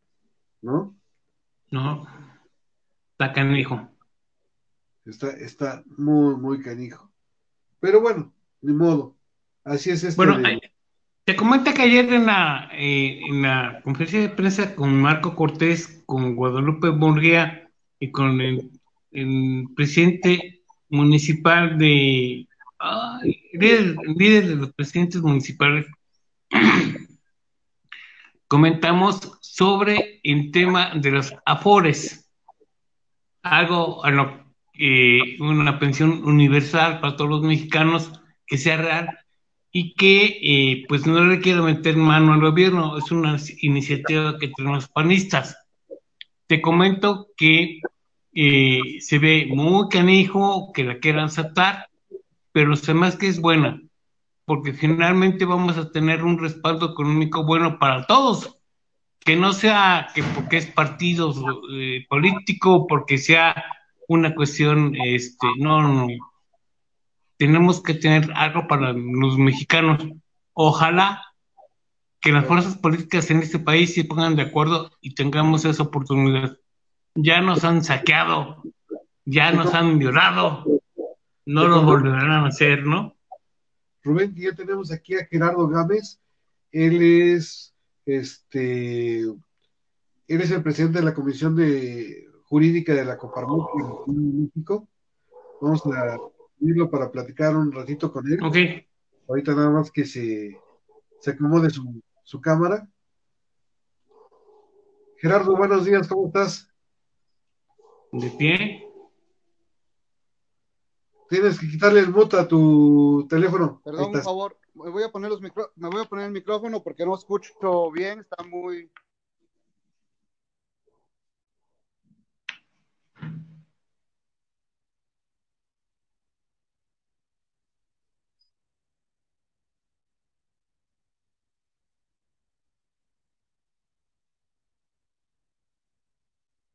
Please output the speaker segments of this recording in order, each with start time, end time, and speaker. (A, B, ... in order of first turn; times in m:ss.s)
0:00.6-0:01.0 A
0:01.7-0:02.1 B
0:03.2-0:03.9 B
0:05.0-0:07.1 A
0:07.8-0:10.6 A
0:10.2-0:10.6 B
0:11.3-0:25.9 B
0:26.5-0:27.0 B
0:28.5-0:32.3 B
0:33.4-0:39.2 B
0:39.7-0:45.6 B
0:46.5-0:47.8 B
0:48.3-0:51.9 B
0:52.5-0:53.9 B
0:54.5-0:58.6 B
0:59.2-1:06.2 B
1:07.4-1:11.2 B
1:12.2-1:16.6 B
1:17.2-1:18.7 B
1:19.2-1:20.7 B
1:19.5-1:19.8 A
1:21.5-1:23.2 B
1:21.6-1:22.0 A
1:24.0-1:26.2 A
1:26.7-1:29.3 A
1:30.3-1:34.9 A
1:35.6-1:38.5 A
1:38.4-1:38.8 B
1:39.3-1:40.6 A
1:41.2-1:42.9 A
1:45.2-1:46.7 A
1:48.1-1:48.9 B
1:51.3-1:54.3 A
1:53.9-1:58.9 C